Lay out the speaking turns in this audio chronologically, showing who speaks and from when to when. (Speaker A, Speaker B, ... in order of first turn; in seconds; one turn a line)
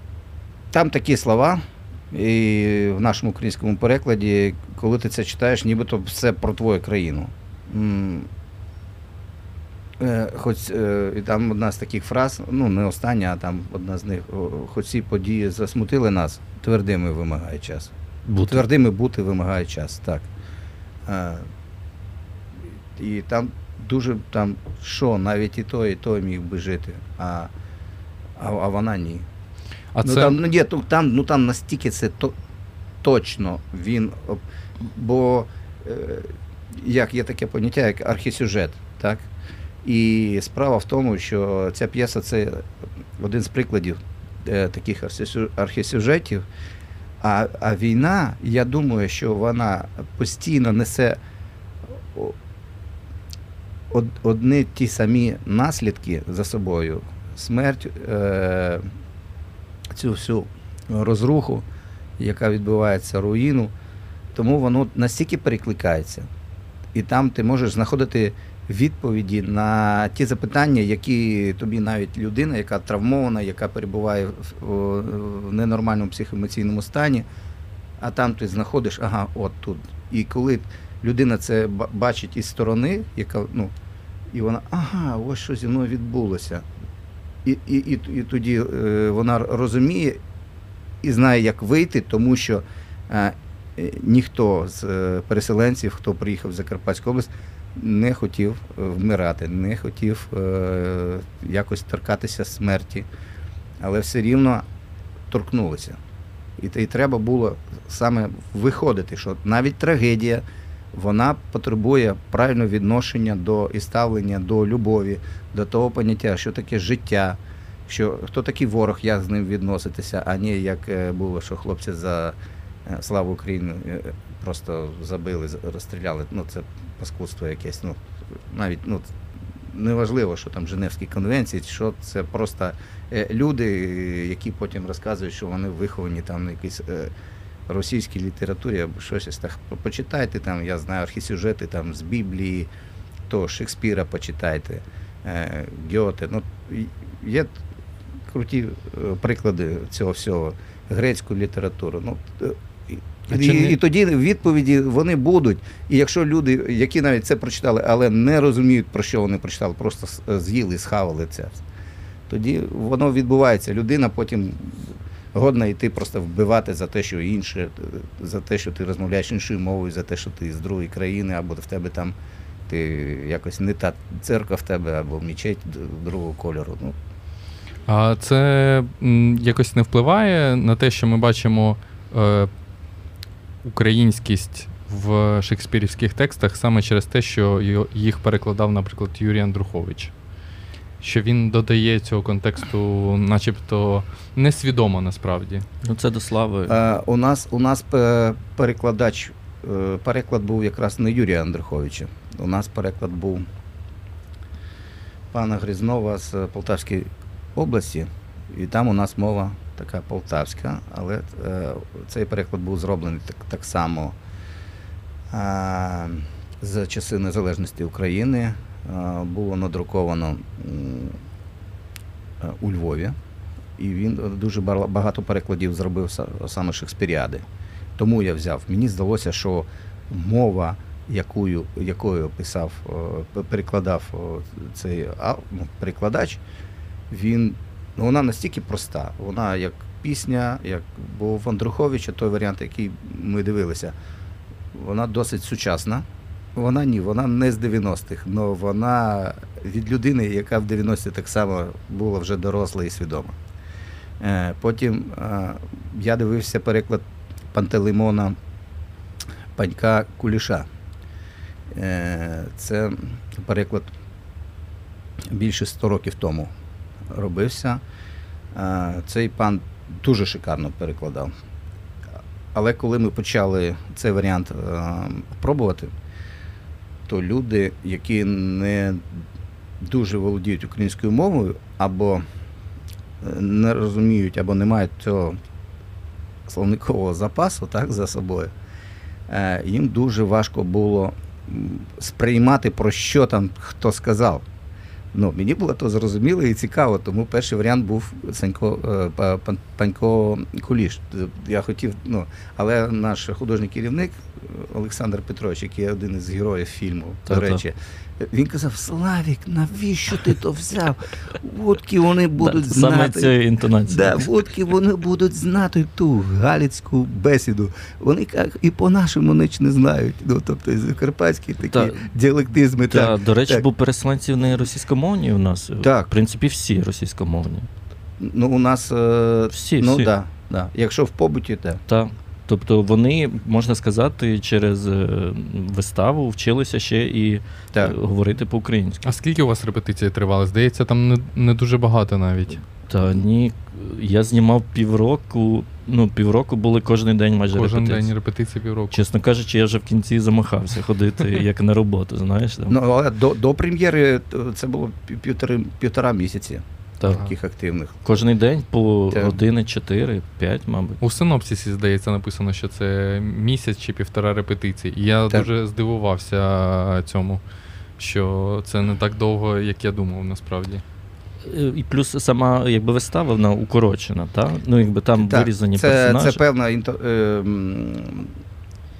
Speaker A: 0.7-8.3
Speaker A: 10.0-17.9
Speaker B: 18.3-18.7
Speaker A: 18.5-20.3
Speaker A: 21.1-21.5
Speaker A: 22.9-27.5
Speaker A: 28.4-29.3
Speaker C: 29.9-30.3
Speaker A: 30.0-32.3
Speaker A: 33.0-39.2
Speaker A: 39.8-42.7
Speaker A: 43.2-46.5
Speaker A: 47.2-51.2
Speaker A: 51.9-52.4
Speaker A: 53.9-58.8
Speaker A: 59.9-61.6
Speaker A: 62.2-63.7
Speaker A: 64.3-66.3
Speaker A: 66.9-77.2
Speaker A: 78.0-83.7
Speaker A: 84.3-86.7
Speaker A: 87.4-90.2
Speaker A: 91.0-103.1
Speaker A: 103.8-104.6
Speaker A: 105.3-106.0
Speaker A: 106.6-129.1
Speaker A: 129.7-137.1
Speaker A: 137.7-142.7
Speaker A: 143.3-147.6
Speaker A: 148.3-161.6
Speaker C: 153.3-153.8
Speaker A: 162.3-172.1
Speaker A: 172.7-176.9
Speaker C: 177.9-182.5
Speaker C: 183.6-190.1
Speaker C: 191.0-195.7
Speaker B: 195.8-196.8
Speaker A: 196.7-203.5
Speaker A: 205.3-214.2
Speaker A: 215.3-221.2
Speaker A: 222.4-223.2
Speaker A: 223.8-227.4
Speaker A: 228.0-236.4
Speaker A: 237.1-243.9
Speaker A: 244.7-253.3
Speaker A: 254.2-258.4
Speaker A: 259.5-260.7
Speaker A: 261.7-263.9
Speaker A: 265.3-266.5
Speaker A: 267.1-267.8
Speaker A: 268.5-271.3
Speaker A: 272.5-275.9
Speaker A: 277.1-279.2
Speaker A: 279.8-282.2
Speaker A: 283.2-285.4
Speaker A: 286.5-288.5
Speaker A: 289.3-294.4
Speaker A: 295.1-313.3
Speaker B: 307.3-307.6
Speaker B: 312.4-314.3
Speaker A: 313.9-323.6
Speaker B: 321.7-322.1
Speaker B: 322.8-327.7
Speaker A: 325.8-326.1
Speaker A: 328.2-331.8
Speaker B: 329.5-330.1
Speaker B: 331.9-339.0
Speaker C: 339.0-342.6
Speaker B: 342.9-348.1
Speaker C: 347.5-349.1
Speaker B: 348.9-352.8
Speaker A: 352.7-358.0
Speaker B: 357.0-357.3
Speaker B: 358.0-361.0
Speaker A: 359.1-359.4
Speaker C: 361.0-367.4
Speaker C: 368.0-370.8
Speaker B: 371.4-376.4
Speaker A: 375.2-378.3